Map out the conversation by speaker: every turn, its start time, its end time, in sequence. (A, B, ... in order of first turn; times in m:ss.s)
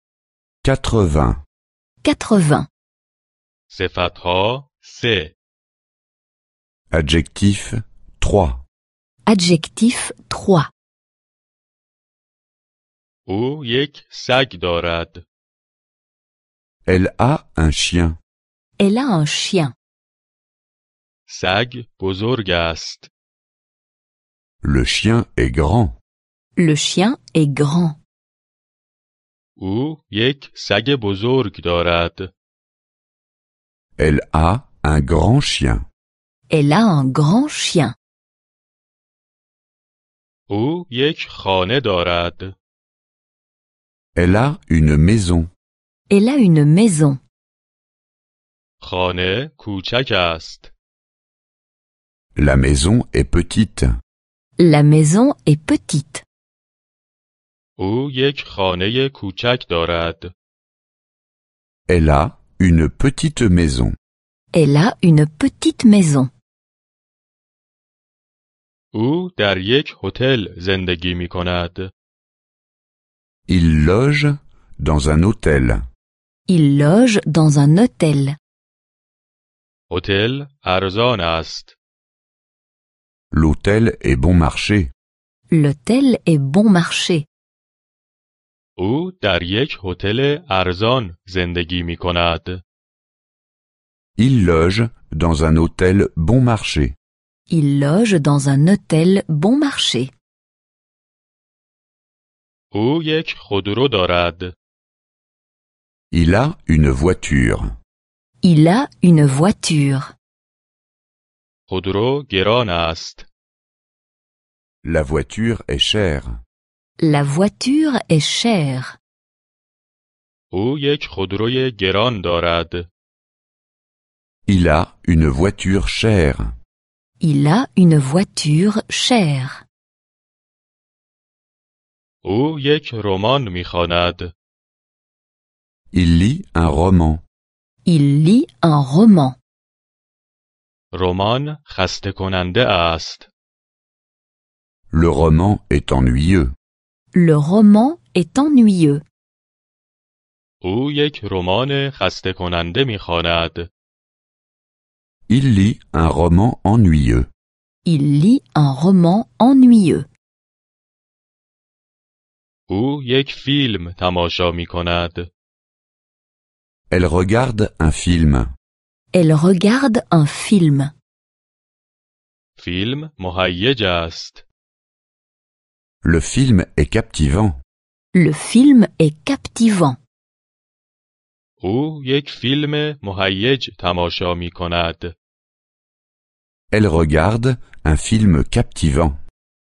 0:00.6-0:01.4 A
0:02.0-0:02.7 B
0:03.7-0:05.4 C
0:06.9-0:08.6 A
0:09.3-0:10.7 B
0:13.3-0:15.2 C
0:16.9-0:18.2 A
0:18.8-0:19.8 B
0:21.3-0:23.1 C
0:24.6-0:26.0 A
0:26.6-0:28.0 B
0:29.6-0:32.3 C
0:34.0-0:35.8 A
0:36.5-0:38.0 B
0:40.5-0:42.6 C
0:44.2-0:45.5 A
0:46.1-0:47.2 B
0:48.8-0:50.7 C
0:52.4-0:53.9 A
0:54.6-0:56.2 B
0:57.8-1:00.3 C
1:01.9-1:03.9 A
1:04.5-1:06.3 B
1:08.9-1:11.9 C
1:13.5-1:15.8 A
1:16.5-1:18.4 B
1:19.9-1:21.8 C
1:23.3-1:24.9 A
1:25.5-1:27.3 B
1:28.8-1:32.6 C
1:34.2-1:37.0 A
1:37.5-1:40.1 B
1:42.7-1:44.5 C
1:46.1-1:47.7 A
1:48.4-1:50.1 B
1:51.7-1:53.3 C
1:54.8-1:56.4 A
1:57.0-1:59.0 B
2:00.5-2:02.9 C
2:04.5-2:06.5 A
2:07.2-2:09.6 B
2:12.2-2:14.3 C
2:15.9-2:17.2 A
2:17.8-2:19.4 B
2:20.9-2:23.3 C
2:24.9-2:26.5 A
2:27.1-2:29.0 B
2:30.6-2:33.7 C
2:35.3-2:37.3 A
2:37.8-2:40.1 B
2:42.7-2:45.3 C
2:46.9-2:48.5 A
2:49.1-2:50.9 B
2:52.6-2:54.5 C
2:56.0-2:57.6 A
2:58.1-3:00.0 B
3:01.6-3:05.1 C
3:06.7-3:09.2 A